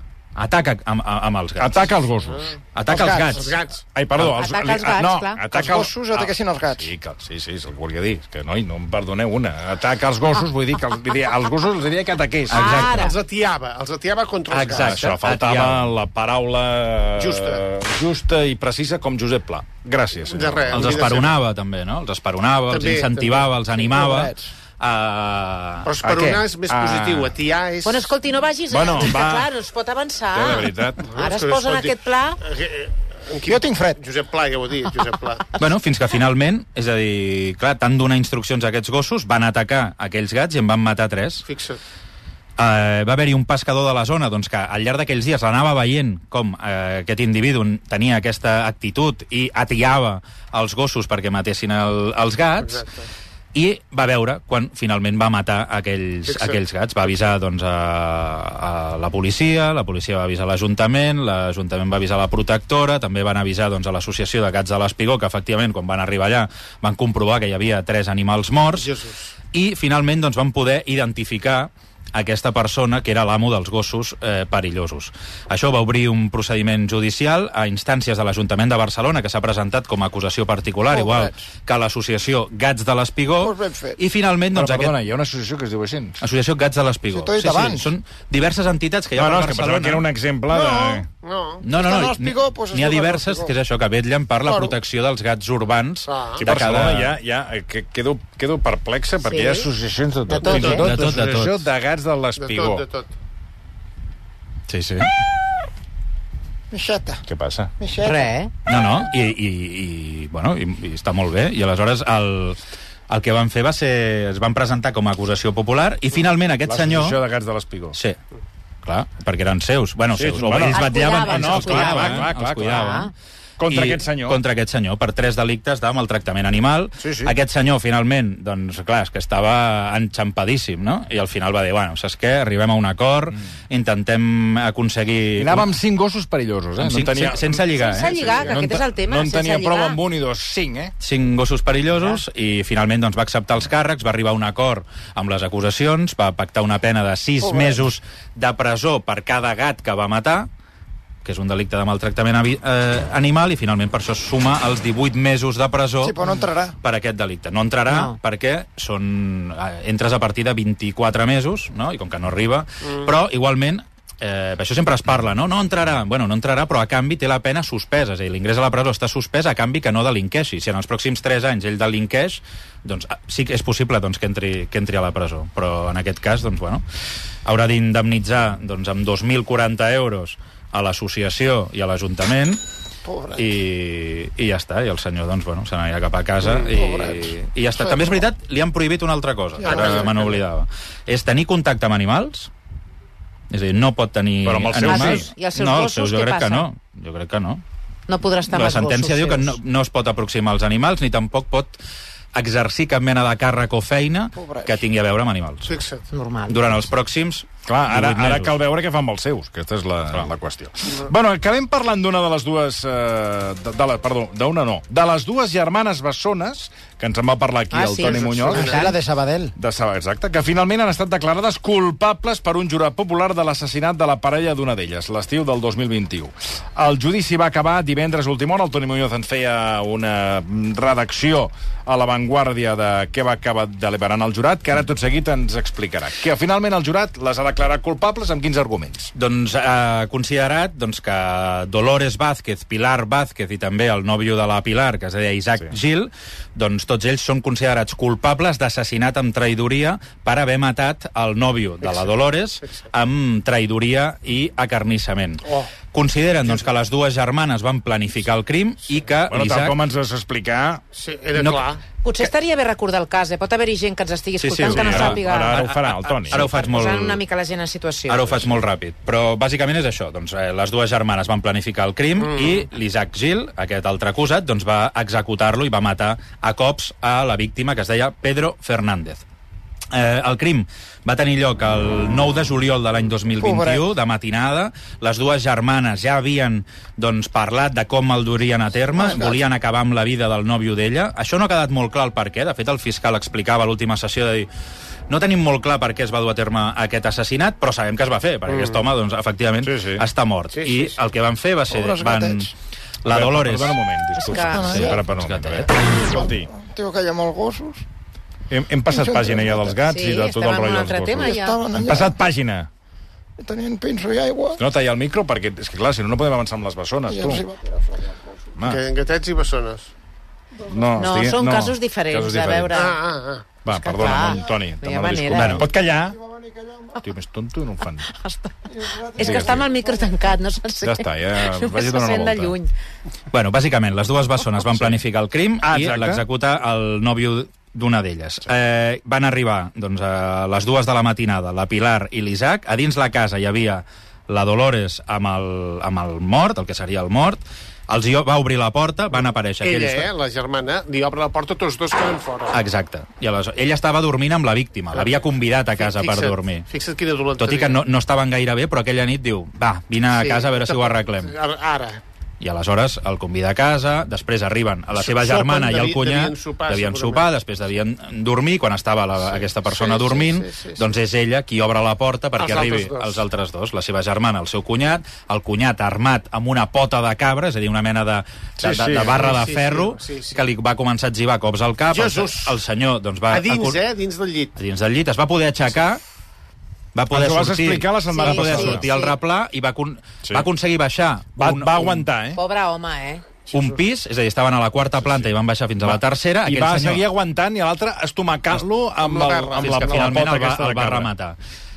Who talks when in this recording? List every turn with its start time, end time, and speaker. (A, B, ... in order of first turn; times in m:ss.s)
0:00.4-0:01.9 A
0:01.6-0:02.5 B
0:02.8-0:03.6 A
0:02.9-0:03.4 C
0:03.3-0:03.8 D
0:03.9-0:12.9 B
0:04.2-0:05.4 E
0:05.5-0:06.9 C
0:12.5-0:13.1 A
0:12.5-0:13.2 E
0:12.8-0:15.1 D
0:14.5-0:15.9 A
0:14.6-0:21.1 B
0:17.2-0:17.6 D
0:20.3-0:21.4 D
0:20.7-0:25.9 A
0:22.7-0:23.5 D
0:23.8-0:24.5 C
0:25.8-0:28.1 D
0:26.0-0:27.3 B
0:27.8-0:32.4 E
0:28.7-0:29.5 B
0:30.3-0:31.0 B
0:31.0-0:35.5 D
0:33.5-0:34.0 C
0:35.6-0:41.5 A
0:41.5-0:41.8 D
0:42.6-0:52.8 A
0:52.6-0:53.1 D
0:53.5-1:08.9 A
0:56.3-0:56.6 D
1:08.7-1:09.3 D
1:09.5-1:25.0 A
1:20.9-1:21.4 C
1:23.4-1:24.0 C
1:24.5-1:26.2 B
1:26.2-1:30.1 A
1:27.1-1:27.9 C
1:29.2-1:31.1 B
1:30.5-1:31.0 C
1:31.2-1:31.6 D
1:31.6-1:37.2 A
1:31.7-1:33.5 C
1:34.5-1:34.7 D
1:36.1-1:36.4 D
1:36.4-1:42.8 B
1:39.2-1:39.7 E
1:40.3-1:40.9 E
1:40.4-1:40.9 D
1:40.6-1:41.7 A
1:42.4-1:43.1 D
1:46.7-1:47.2 C
1:47.3-1:47.7 B
1:47.8-1:48.3 C
1:48.0-1:48.5 E
1:48.7-1:52.6 A
1:53.1-1:57.2 A
1:56.7-1:58.0 B
1:57.9-1:58.2 A
1:58.8-2:03.1 A
2:00.2-2:03.0 B
2:00.6-2:03.1 E
2:03.6-2:04.4 B
2:03.7-2:15.7 A
2:07.0-2:07.3 B
2:15.4-2:20.9 B
2:16.8-2:18.5 A
2:17.7-2:20.0 E
2:21.0-2:30.5 A
2:27.4-2:27.9 C
2:31.2-2:36.2 A
2:36.0-2:36.8 C
2:36.8-2:56.8 A
2:37.9-2:38.2 E
2:57.4-3:02.6 A
3:03.0-3:03.5 C
3:03.4-3:12.5 A
3:06.6-3:08.2 C
3:09.6-3:10.1 C
3:09.6-3:10.4 D
3:13.5-3:17.6 A
3:14.4-3:15.3 B
3:14.8-3:16.7 E
3:18.1-3:19.6 E
3:18.5-3:21.8 A
3:22.4-3:25.8 A
3:24.4-3:24.8 C
3:25.7-3:26.1 D
3:26.1-3:26.8 E
3:26.5-3:28.6 A
3:27.7-3:38.9 B
3:37.7-3:39.0 E
3:38.0-3:38.9 D
3:38.5-3:39.5 C
3:39.6-3:59.1 B
3:59.2-4:19.8 A
4:11.8-4:12.1 D
4:15.4-4:15.7 D
4:19.3-4:20.8 B
4:20.9-4:21.8 D
4:21.4-4:21.7 A
4:22.0-4:25.7 E
4:24.4-4:27.2 A
4:24.6-4:26.5 B
4:26.2-4:28.5 E
4:28.1-4:39.2 A
4:32.2-4:32.7 D
4:39.9-4:54.5 A
4:43.4-4:43.9 C
4:48.9-4:49.4 C
4:55.1-5:02.5 A
4:58.5-4:58.8 D
4:59.6-5:00.0 B
5:00.5-5:01.0 D
5:01.7-5:02.5 C
5:03.0-5:03.8 A
5:03.0-5:06.5 B
5:04.2-5:05.0 E
5:04.4-5:05.0 C
5:04.6-5:06.0 A
5:06.0-5:07.8 C
5:08.5-5:12.7 B
5:08.9-5:09.8 C
5:09.9-5:11.6 E
5:11.2-5:12.2 C
5:13.4-5:14.6 C
5:14.6-5:17.4 B
5:17.1-5:18.3 C
5:18.6-5:19.9 D
5:20.6-5:22.8 B
5:21.0-5:23.0 E
5:22.7-5:23.5 D
5:23.6-5:26.2 B
5:23.7-5:25.6 E
5:25.3-5:25.6 A
5:25.8-5:27.0 C
5:27.0-5:28.1 B
5:28.1-5:28.5 E
5:28.7-5:30.1 C
5:29.2-5:32.7 E
5:29.2-5:29.6 B
5:30.8-5:32.6 B
5:33.3-5:50.1 A
5:34.7-5:35.0 B
5:35.6-5:36.2 B
5:49.6-5:52.6 D
5:52.5-5:56.7 A
5:54.9-5:55.2 D
5:55.8-5:57.8 D
5:57.4-6:01.3 A
6:00.1-6:02.0 D
6:02.4-6:23.8 A
6:04.9-6:07.3 D
6:09.3-6:10.8 D
6:12.4-6:13.2 D
6:18.6-6:19.3 B
6:19.0-6:20.4 D
6:21.9-6:22.6 D
6:23.3-6:24.6 D
6:24.6-6:26.0 A
6:27.0-6:32.1 A
6:27.1-6:28.9 B
6:28.1-6:29.2 E
6:31.4-6:32.4 B
6:32.3-6:33.2 E
6:33.5-6:33.8 D
6:33.5-6:37.0 A
6:35.8-6:41.1 B
6:39.0-6:40.2 D
6:39.6-6:41.4 A